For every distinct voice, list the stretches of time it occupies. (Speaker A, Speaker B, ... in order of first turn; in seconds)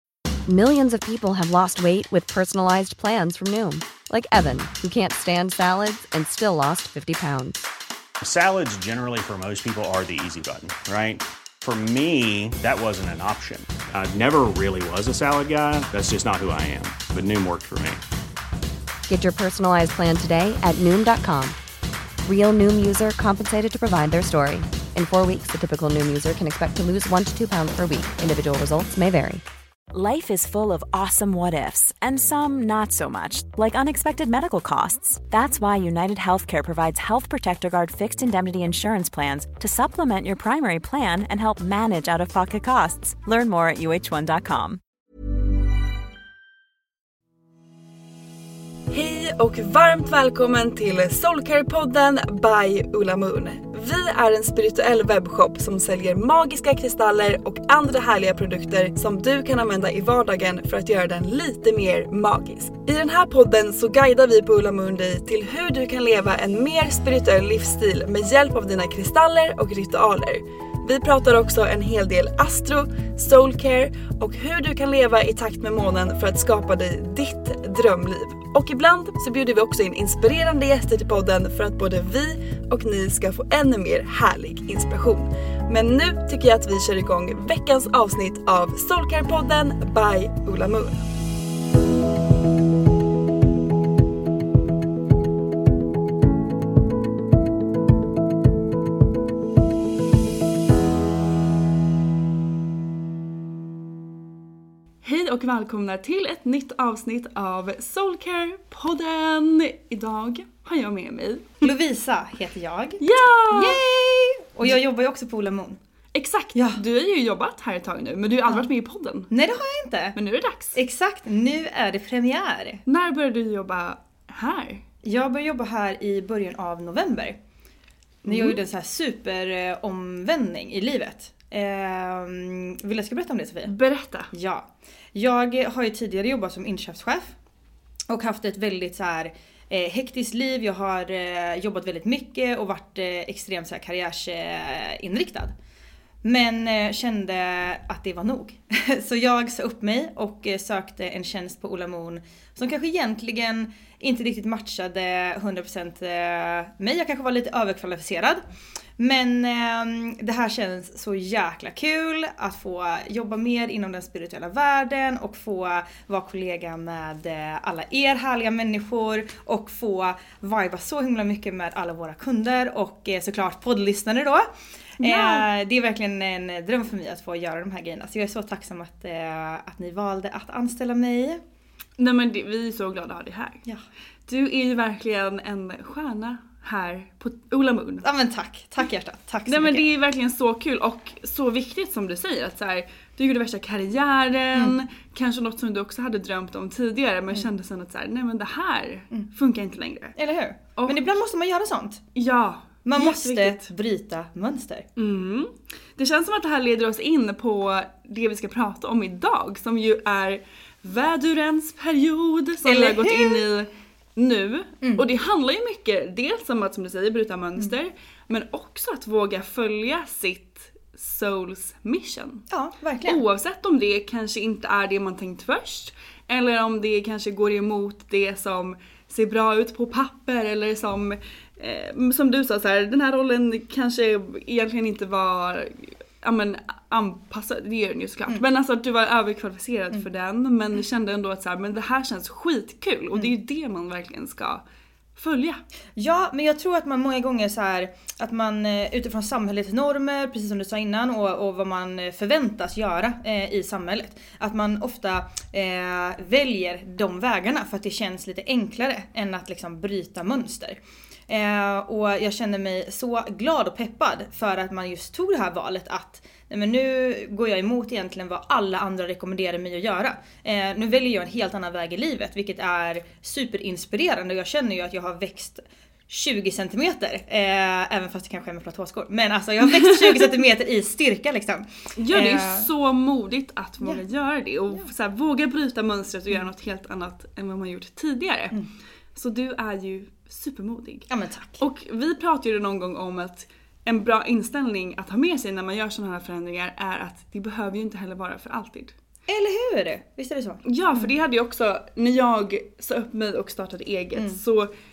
Speaker A: 0.5-7.6, 19.1-21.6, 22.2-29.4
Speaker B: 8.2-18.0
Speaker C: 29.9-44.8
Speaker D: 48.9-91.0, 105.0-111.7, 113.0-113.8, 116.1-119.3, 120.2-120.8, 122.8-124.8, 128.2-128.6, 133.7-134.3, 175.0-175.5, 182.0-183.6, 184.3-188.1, 189.5-200.1, 200.8-201.1, 202.1-203.7, 204.9-222.4, 223.0-244.6, 245.2-245.6, 279.8-280.2, 281.9-288.6, 289.1-298.9, 300.6-304.7
Speaker E: 111.6-115.8, 116.5-116.8, 119.3-120.2, 120.7-122.8, 125.0-127.4, 128.2-133.7, 134.3-137.3, 138.1-145.5, 146.2-158.4, 159.0-181.4, 188.0-189.9, 200.2-202.0, 202.8-204.9, 212.6-213.4, 222.5-223.2, 245.9-282.7, 291.1-291.6, 299.3-301.1